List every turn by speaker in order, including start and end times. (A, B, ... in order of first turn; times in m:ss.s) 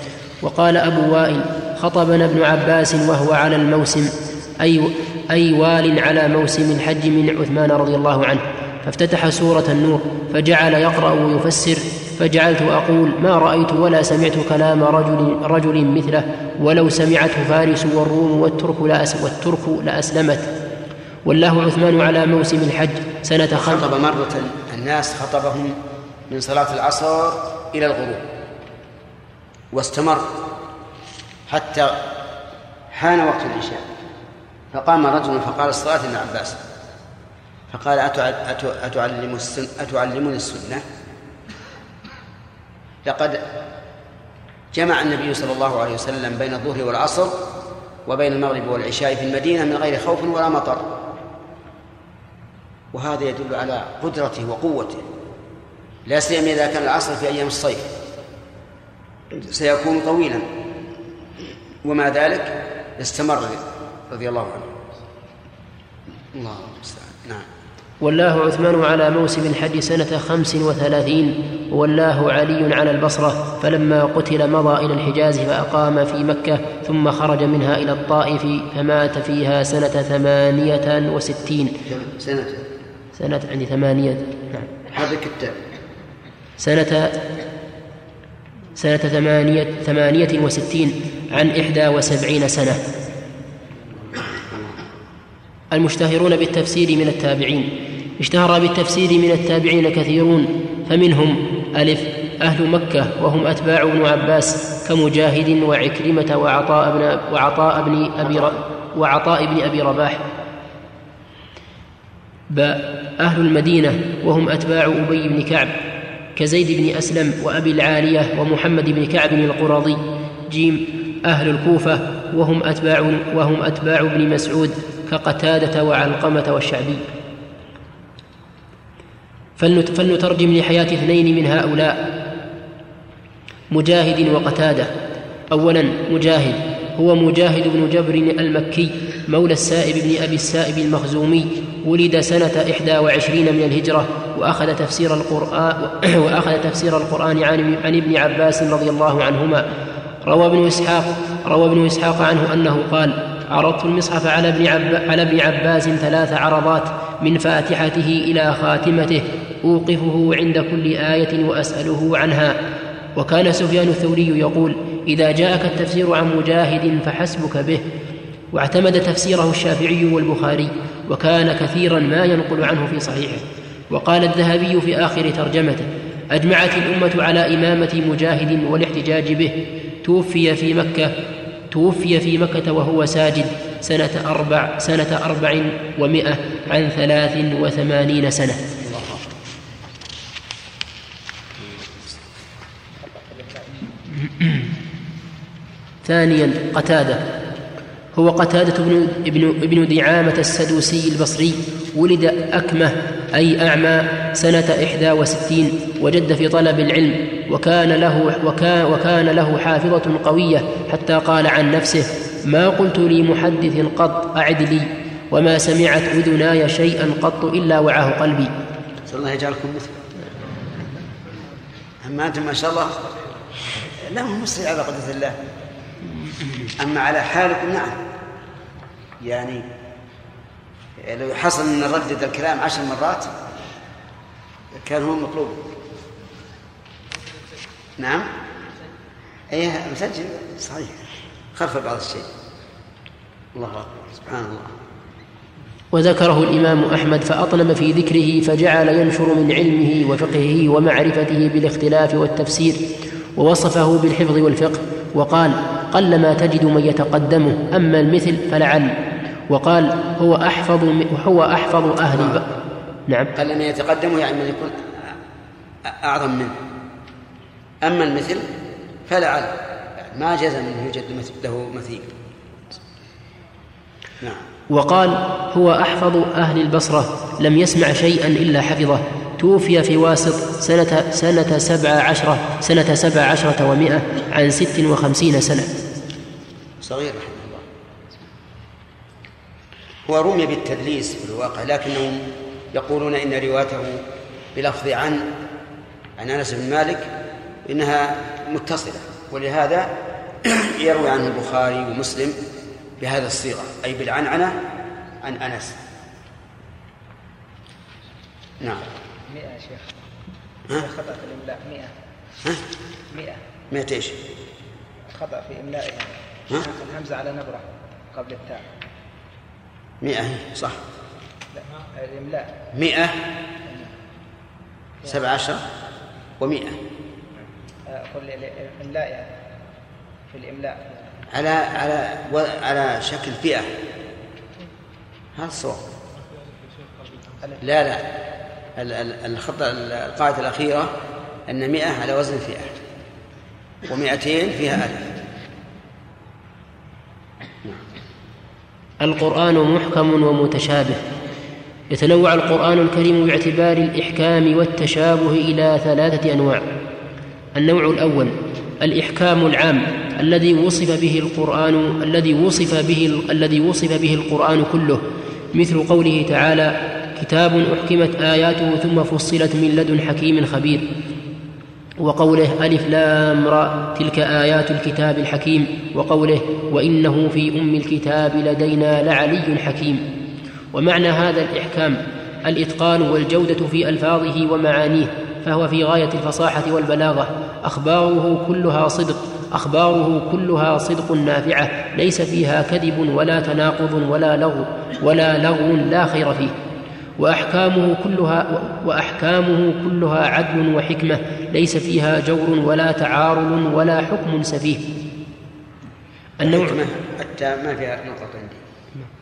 0:00.4-0:20.5 A
0:21.2-0:23.9 A
0:23.5-0:25.8 B
0:26.3-0:28.2 B
0:29.7-0:30.4 B
0:31.5-0:32.0 B
0:32.9-0:33.8 B
0:34.7-0:36.6 B
0:37.7-0:40.8 B
0:43.0-0:43.4 B
0:44.7-0:47.4 B
0:48.0-0:50.9 B
0:52.9-0:55.0 B
0:56.0-0:57.9 B
0:59.3-1:00.5 B
1:01.8-1:04.7 B
1:06.3-1:07.5 B
1:08.0-1:21.8 A
1:21.8-1:22.7 B
1:23.2-1:24.7 A
1:24.8-1:25.6 B
1:26.6-1:27.2 A
1:28.8-1:32.8 A
1:34.2-1:34.7 B
1:35.7-1:50.3 A
1:52.5-1:55.8 A
1:56.4-2:07.0 A
2:09.6-2:12.1 A
2:13.7-2:14.9 A
2:15.5-2:29.6 A
2:30.2-2:42.6 A
2:43.2-2:47.8 A
2:48.5-3:01.1 A
3:01.7-3:08.6 A
3:08.8-3:09.2 B
3:11.7-3:12.1 B
3:13.0-3:13.9 C
3:16.0-3:17.3 A
3:18.1-3:38.5 A
3:39.1-3:40.0 B
3:42.0-3:43.0 B
3:43.9-3:45.4 B
3:46.8-3:48.0 B
3:49.2-3:49.6 B
3:51.0-3:53.3 B
3:54.7-3:55.6 B
3:58.0-3:58.3 B
3:59.5-4:01.0 B
4:01.5-4:02.3 B
4:03.5-4:04.7 B
4:05.9-4:12.8 A
4:13.4-4:18.9 A
4:19.5-4:22.4 A
4:23.3-4:24.8 B
4:25.8-4:26.5 B
4:27.8-4:28.5 B
4:29.1-4:32.1 B
4:34.7-4:45.7 A
4:46.8-4:47.6 B
4:50.0-4:54.0 B
4:54.5-4:55.3 B
4:56.2-4:57.1 B
4:57.6-5:02.4 B
5:03.0-5:04.6 B
5:05.2-5:05.8 B
5:09.3-5:10.0 C
5:10.7-5:11.9 C
5:13.1-5:13.4 C
5:13.7-5:14.2 B
5:15.1-5:18.7 C
5:20.0-5:20.8 B
5:21.5-5:22.5 C
5:22.7-5:23.2 B
5:23.6-5:24.0 C
5:25.0-5:25.7 B
5:26.4-5:26.8 B
5:27.9-5:29.3 C
5:30.3-5:31.2 C
5:31.3-5:33.7 B
5:35.3-5:35.8 B
5:37.6-5:38.1 B
5:38.8-5:41.0 B
5:41.5-5:42.8 B
5:43.9-5:45.1 B
5:49.0-5:51.0 A
5:51.9-5:56.6 A
5:57.6-6:05.0 A
6:05.5-6:10.8 A
6:12.0-6:20.0 A
6:20.7-6:36.5 A
6:37.2-6:44.8 A
6:46.4-6:46.7 A
6:46.4-6:48.7 B